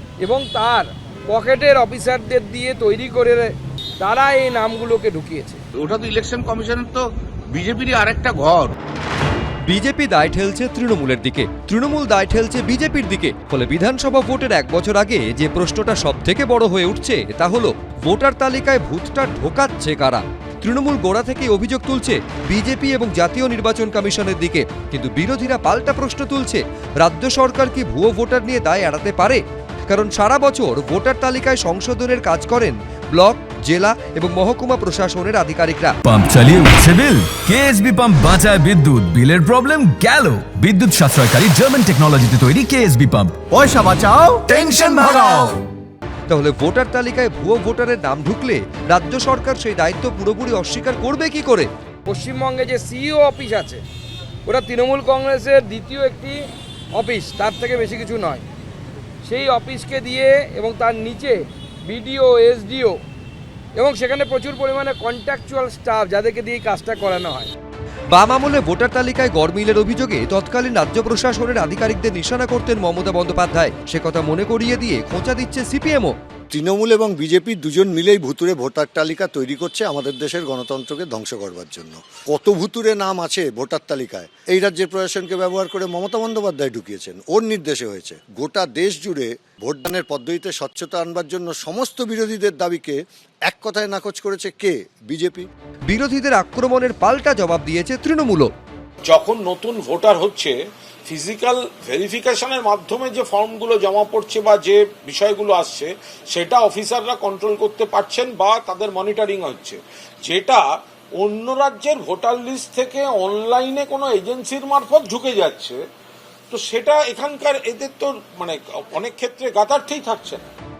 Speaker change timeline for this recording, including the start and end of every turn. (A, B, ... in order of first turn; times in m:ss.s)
0:00.2-0:05.6 A
0:05.8-0:08.8 B
0:09.7-0:36.0 C
0:36.0-0:43.4 D
0:43.6-0:45.4 E
0:44.5-0:45.5 D
0:46.3-0:51.7 C
0:52.1-0:53.8 A
0:54.4-0:56.4 A
0:56.9-0:58.4 A
0:59.2-1:03.0 A
1:03.8-1:07.5 A
1:08.1-1:16.1 C
1:16.5-1:35.5 E
1:35.9-1:38.5 C
1:39.0-1:40.6 F
1:41.1-1:55.8 F
1:56.5-2:00.4 F